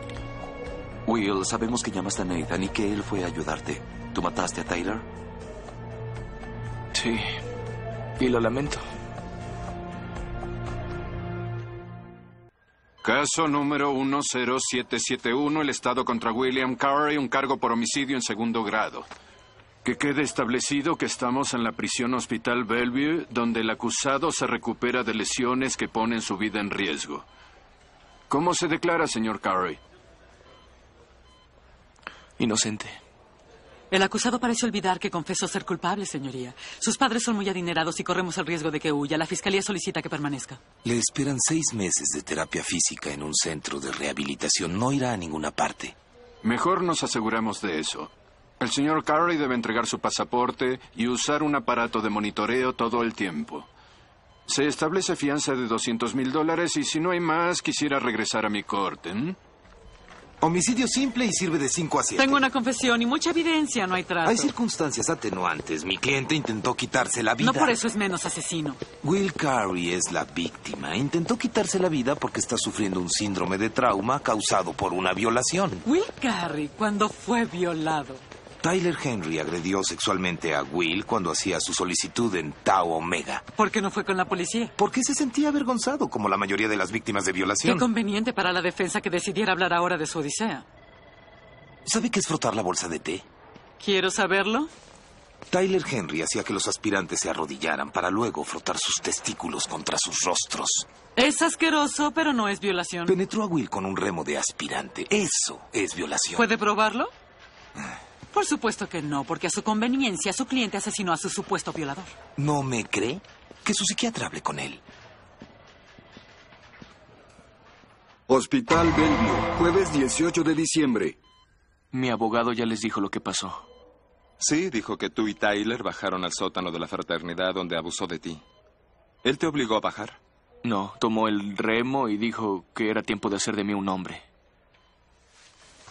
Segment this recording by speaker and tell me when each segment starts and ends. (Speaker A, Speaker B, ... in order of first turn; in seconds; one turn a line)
Speaker A: 1.1-5.0
Speaker B: 6.9-7.4
Speaker B: 8.2-8.8
Speaker C: 13.0-19.1
Speaker C: 19.8-27.3
Speaker C: 28.3-29.8
Speaker B: 32.4-33.0
Speaker D: 33.9-40.6
Speaker E: 40.8-46.0
Speaker C: 46.4-53.7
Speaker C: 54.5-59.4
Speaker E: 60.4-62.4
Speaker D: 62.2-64.5
Speaker E: 64.2-67.8
Speaker D: 67.4-68.8
Speaker E: 69.0-75.8
Speaker D: 75.8-78.2
Speaker E: 78.6-83.4
Speaker D: 83.6-84.7
Speaker E: 84.8-87.9
Speaker D: 87.6-90.7
Speaker E: 91.8-93.2
Speaker D: 93.8-94.7
Speaker E: 95.5-100.9
Speaker D: 101.2-103.2
Speaker E: 103.1-106.4
Speaker D: 106.3-107.1
Speaker D: 108.3-112.1
Speaker E: 112.4-114.8
Speaker F: 118.3-121.2
Speaker B: 121.9-123.7
Speaker G: 124.4-128.4
Speaker G: 129.2-130.2
Speaker B: 130.6-134.2